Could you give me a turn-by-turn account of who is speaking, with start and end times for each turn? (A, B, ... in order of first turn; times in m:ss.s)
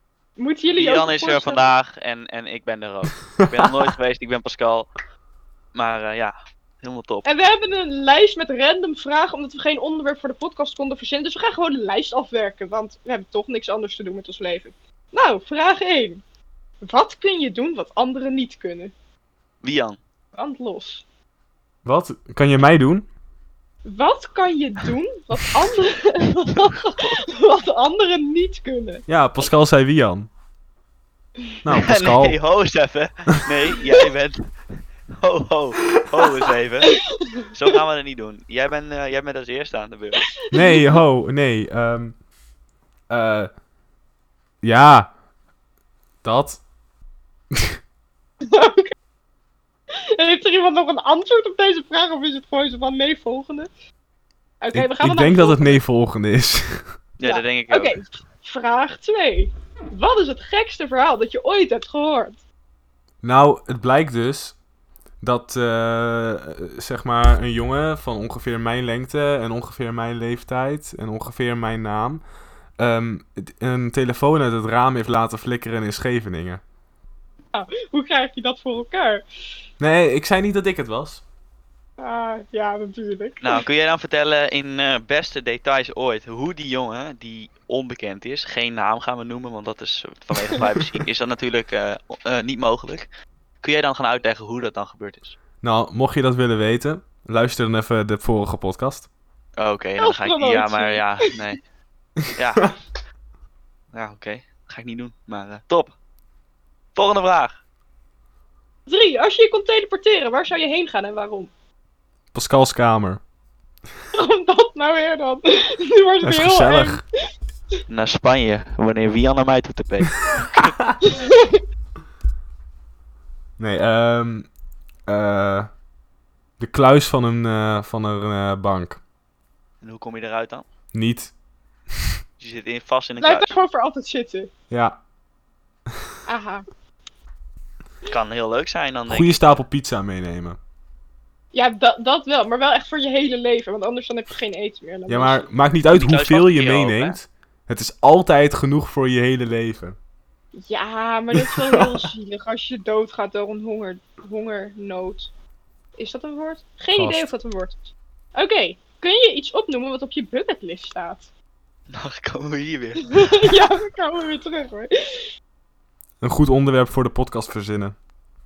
0:00.4-0:01.6 A
0:00.7-0:04.9 B
0:03.4-0:03.9 C
0:05.7-0:07.3 B
0:07.3-0:16.2 A
0:16.8-0:18.9 A
0:19.6-0:20.0 B
0:20.4-0:21.0 A
0:21.8-0:23.1 C
0:23.8-0:29.1 A
0:26.9-0:27.2 B
0:29.1-0:30.3 C
0:31.6-0:32.4 C
0:31.7-0:40.4 B
0:36.8-0:37.8 A
0:40.3-0:41.0 A
0:40.5-0:42.2 C
0:43.1-0:43.5 C
0:44.6-0:45.1 C
0:46.2-0:46.6 C
0:48.4-0:48.9 A
0:50.1-0:53.7 A
0:54.6-0:55.8 A
0:54.7-0:56.9 C
0:57.2-0:58.0 B
0:57.2-1:02.4 A
1:03.2-1:04.6 C
1:05.2-1:12.2 C
1:12.8-1:16.6 C
1:17.5-1:19.2 A
1:19.8-1:21.2 C
1:22.0-1:23.6 A
1:23.4-1:33.1 B
1:33.6-1:35.4 B
1:35.6-1:39.1 C
1:39.6-1:41.6 B
1:40.0-1:41.3 A
1:42.3-1:42.7 B
1:43.9-1:45.9 B
1:47.0-1:47.6 B
1:48.9-1:51.5 A
1:52.3-1:53.2 C
1:54.1-1:57.0 A
1:56.2-1:57.0 C
1:57.9-2:00.8 B
2:00.6-2:01.0 C
2:01.0-2:01.6 A
2:03.6-2:04.5 C
2:05.1-2:05.7 C
2:06.6-2:09.0 C
2:09.8-2:10.7 B
2:10.9-2:11.3 C
2:12.4-2:13.6 B
2:13.2-2:14.5 A
2:14.7-2:15.0 C
2:16.3-2:16.7 A
2:18.1-2:19.6 B
2:19.1-2:20.6 C
2:21.5-2:25.5 A
2:25.1-2:30.0 C
2:25.9-2:27.2 B
2:30.5-2:35.3 A
2:31.3-2:32.1 C
2:36.0-2:41.3 A
2:36.9-2:37.3 C
2:41.9-2:43.2 B
2:43.1-2:45.3 A
2:46.2-2:48.0 C